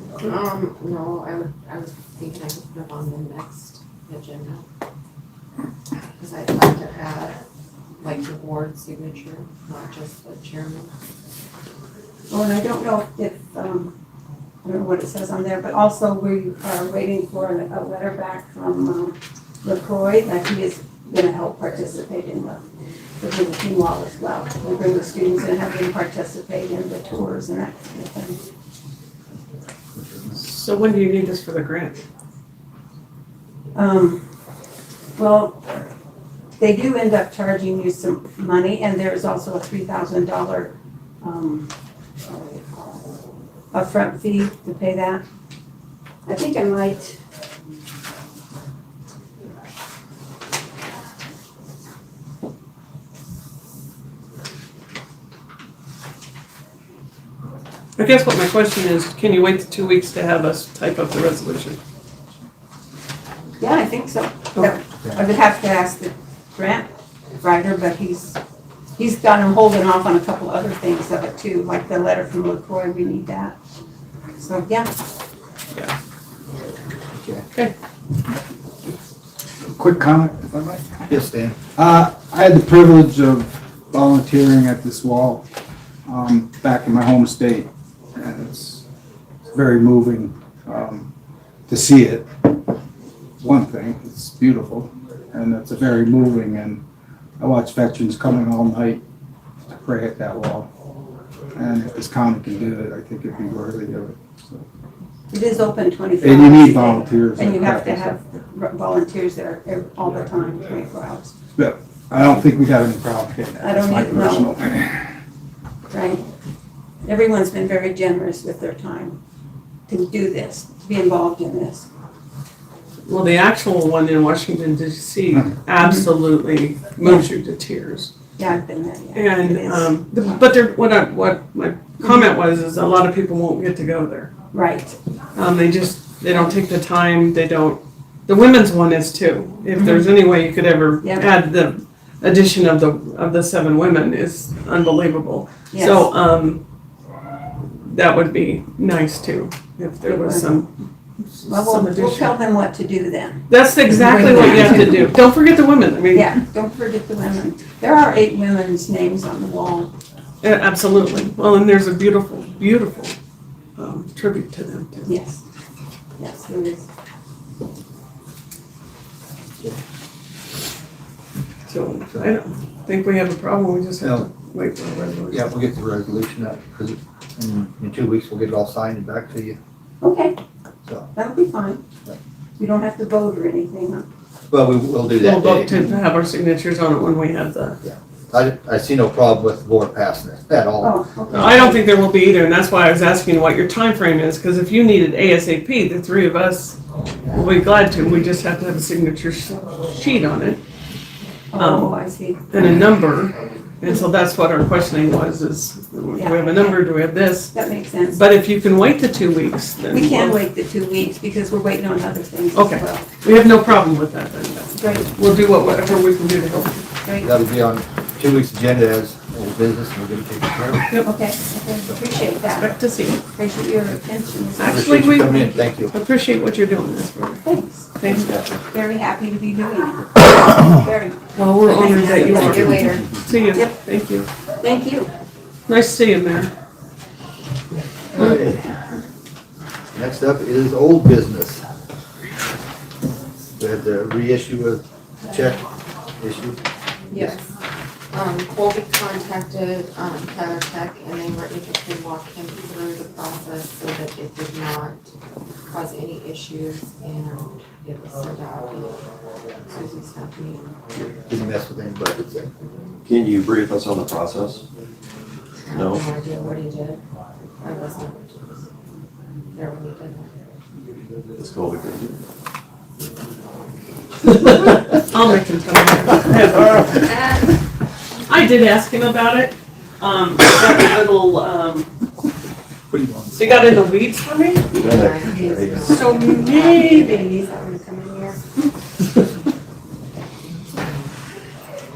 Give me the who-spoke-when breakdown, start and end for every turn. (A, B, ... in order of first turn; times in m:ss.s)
0:00.2-0:04.6 A
0:06.2-0:07.4 A
0:08.0-0:10.9 A
0:12.3-0:13.9 B
0:14.6-0:22.6 B
0:23.2-0:28.4 B
0:30.3-0:32.0 C
0:33.7-0:34.2 B
0:35.2-0:35.9 B
0:36.6-0:41.7 B
0:42.2-0:42.9 B
0:43.7-0:45.2 B
0:46.2-0:47.2 B
0:58.0-1:01.8 C
1:03.6-1:08.4 B
1:09.0-1:13.6 B
1:14.4-1:14.9 B
1:17.1-1:17.4 D
1:19.6-1:21.1 E
1:21.1-1:21.6 D
1:21.7-1:25.4 E
1:26.0-1:28.8 E
1:29.5-1:31.1 E
1:31.7-1:32.3 E
1:33.4-1:36.8 E
1:37.4-1:39.0 E
1:39.7-1:40.7 E
1:41.5-1:44.6 E
1:45.3-1:51.3 B
1:46.2-1:48.2 E
1:51.6-1:55.1 E
1:53.6-1:54.6 B
1:55.9-1:56.2 B
1:57.0-1:59.2 B
1:59.9-2:01.9 B
2:03.1-2:08.1 C
2:05.8-2:06.1 B
2:08.4-2:10.4 B
2:09.1-2:14.3 C
2:14.5-2:15.0 B
2:15.3-2:26.6 C
2:19.8-2:20.1 B
2:21.0-2:21.2 B
2:25.7-2:26.1 B
2:27.8-2:30.7 C
2:30.0-2:30.6 B
2:31.3-2:32.3 C
2:31.4-2:35.1 B
2:33.5-2:36.4 C
2:36.1-2:39.9 B
2:40.4-2:43.2 C
2:43.8-2:45.1 C
2:45.0-2:45.4 B
2:46.2-2:46.9 B
2:51.7-2:55.5 C
2:54.0-2:54.2 D
2:55.3-2:59.6 D
3:00.0-3:00.4 B
3:01.1-3:01.8 B
3:02.6-3:04.0 B
3:04.5-3:05.7 D
3:05.1-3:07.8 C
3:05.7-3:06.0 B
3:07.8-3:11.5 D
3:10.8-3:11.8 B
3:11.3-3:20.6 C
3:21.5-3:22.4 B
3:21.6-3:27.5 C
3:26.1-3:28.2 B
3:28.1-3:30.4 C
3:29.9-3:33.1 B
3:32.5-3:36.8 C
3:34.7-3:35.1 B
3:37.0-3:37.3 B
3:37.2-3:40.9 D
3:41.0-3:45.5 B
3:42.6-3:43.2 C
3:44.6-3:47.4 C
3:44.6-3:45.9 D
3:47.4-3:53.7 B
3:48.0-3:48.3 C
3:48.1-3:48.6 F
3:51.3-3:54.3 C
3:51.7-3:53.2 A
3:54.6-3:55.1 B
3:55.7-3:56.5 C
3:58.1-3:58.6 D
3:59.9-4:01.6 D
4:03.6-4:05.6 D
4:06.2-4:06.6 D
4:07.1-4:07.4 A
4:08.1-4:15.1 A
4:15.6-4:19.0 A
4:19.6-4:20.8 A
4:21.0-4:22.5 D
4:23.0-4:24.6 F
4:25.6-4:27.0 A
4:25.7-4:26.1 F
4:27.6-4:28.6 A
4:29.5-4:30.3 A
4:31.4-4:32.2 F
4:34.3-4:37.1 C
4:37.0-4:37.5 A
4:38.3-4:41.9 C
4:42.9-4:43.5 E
4:43.3-4:44.7 C
4:44.7-4:48.4 A
4:44.7-4:46.1 F
4:45.8-4:47.6 C
4:50.6-4:51.1 A